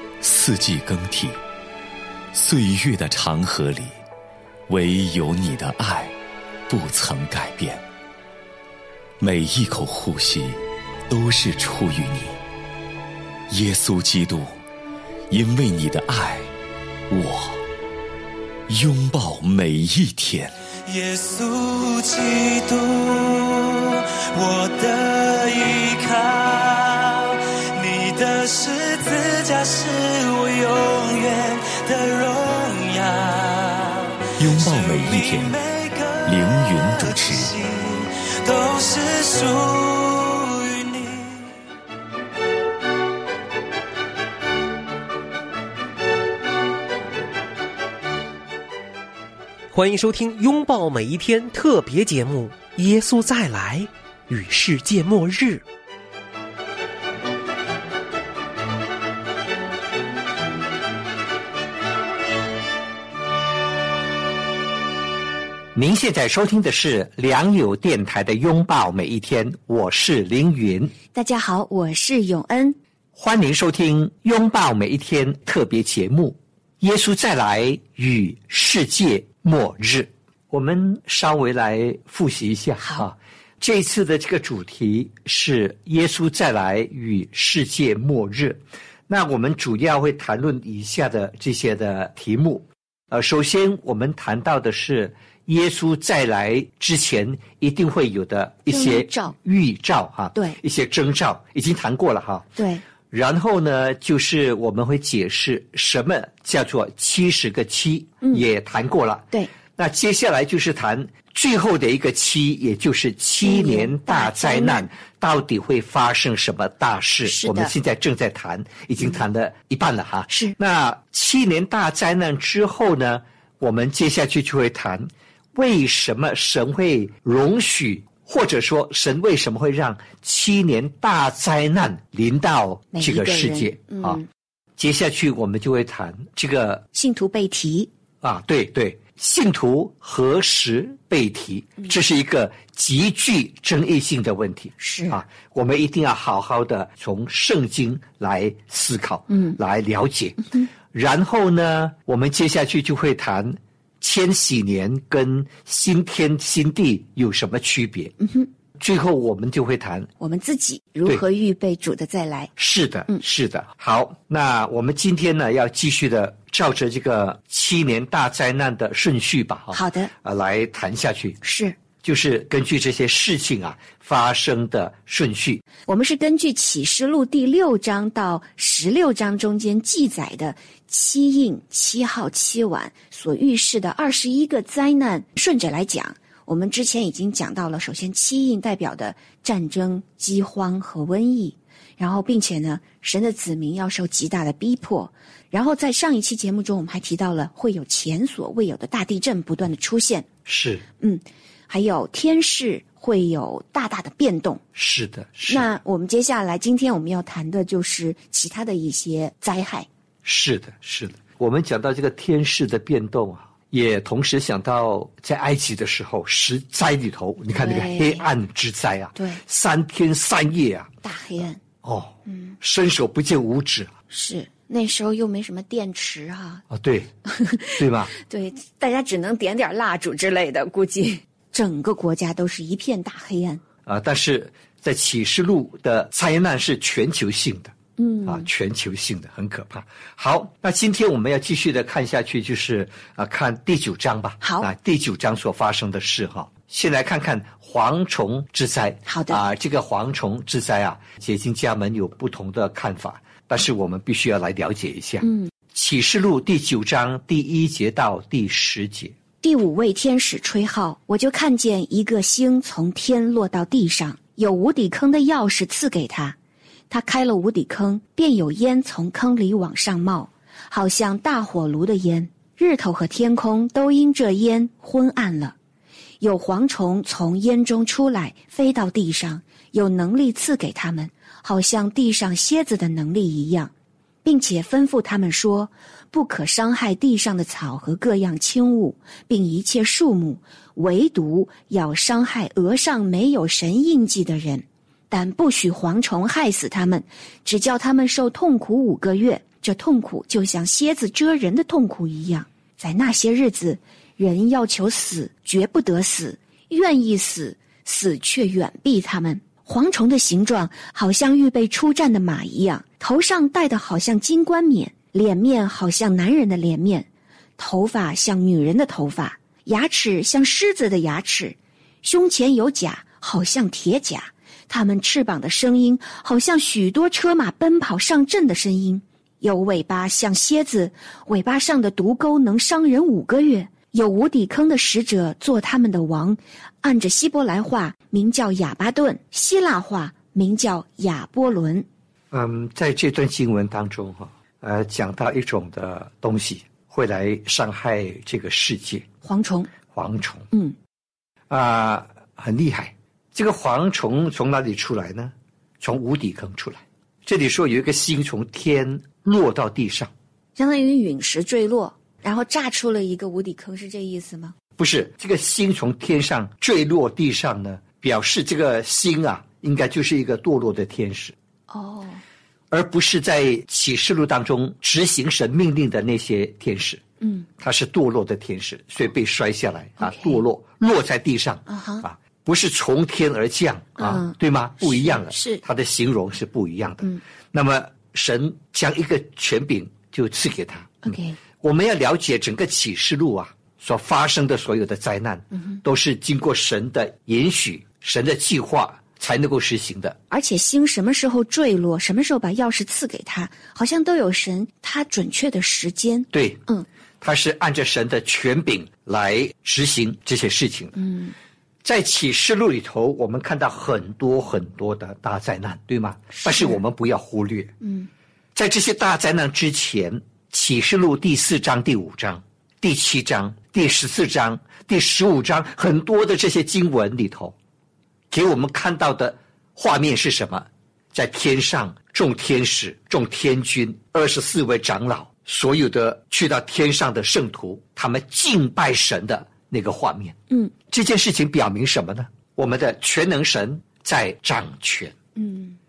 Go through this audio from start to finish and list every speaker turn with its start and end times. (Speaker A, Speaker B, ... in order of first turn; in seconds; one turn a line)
Speaker A: 0.2-1.4
Speaker A: 2.3-4.0
Speaker A: 4.7-6.1
Speaker A: 6.7-7.8
Speaker A: 9.2-12.4
Speaker A: 13.5-14.6
Speaker A: 15.3-16.5
Speaker A: 17.1-17.6
Speaker A: 18.7-20.6
Speaker B: 20.9-41.5
Speaker A: 34.4-35.6
Speaker A: 36.3-37.5
Speaker C: 49.7-55.6
Speaker D: 65.7-71.0
Speaker E: 71.1-72.8
Speaker D: 73.2-102.5
Speaker E: 82.8-83.0
Speaker E: 98.7-99.3
Speaker E: 100.3-100.6
Speaker E: 102.6-102.8
Speaker D: 103.1-134.2
Speaker E: 113.4-114.9
Speaker E: 117.2-117.7
Speaker E: 120.3-120.5
Speaker E: 132.9-134.3
Speaker D: 134.8-136.8
Speaker E: 136.9-137.9
Speaker D: 138.2-158.1
Speaker E: 144.8-145.2
Speaker E: 149.3-149.6
Speaker E: 158.2-158.5
Speaker D: 158.8-160.1
Speaker E: 160.2-162.5
Speaker D: 162.6-171.4
Speaker E: 169.7-170.1
Speaker E: 171.4-171.8
Speaker D: 172.0-175.6
Speaker E: 175.9-200.3
Speaker D: 200.5-200.8
Speaker E: 201.0-204.6
Speaker D: 204.8-205.7
Speaker E: 205.5-209.9
Speaker D: 210.2-220.9
Speaker E: 217.5-218.2
Speaker E: 219.2-219.4
Speaker E: 221.0-221.6
Speaker D: 221.8-223.9
Speaker E: 222.3-222.6
Speaker E: 224.1-226.6
Speaker D: 226.7-227.1
Speaker E: 227.3-233.6
Speaker D: 227.8-228.1
Speaker D: 233.9-237.7
Speaker E: 238.0-238.5
Speaker D: 238.2-259.1
Speaker E: 244.4-244.7
Speaker E: 249.1-249.4
Speaker E: 255.2-255.5
Speaker E: 259.4-266.4
Speaker E: 266.9-275.6
Speaker E: 276.2-283.7
Speaker E: 284.2-341.9
Speaker D: 342.3-349.1
Speaker E: 349.2-349.7
Speaker D: 349.9-350.5
Speaker D: 351.5-360.1
Speaker E: 360.6-364.5
Speaker D: 364.8-371.4
Speaker E: 371.7-372.2
Speaker D: 372.7-377.0
Speaker E: 377.2-377.5
Speaker D: 377.6-400.2
Speaker E: 380.0-380.4
Speaker E: 381.7-382.1
Speaker E: 384.0-385.6
Speaker E: 391.0-391.4
Speaker E: 395.5-395.8
Speaker E: 400.3-406.9
Speaker D: 406.3-406.6
Speaker D: 407.2-411.0
Speaker E: 411.0-411.3
Speaker D: 411.8-417.7
Speaker E: 416.3-416.8
Speaker E: 417.8-418.1
Speaker D: 418.6-427.6
Speaker D: 428.3-445.2
Speaker E: 445.4-445.8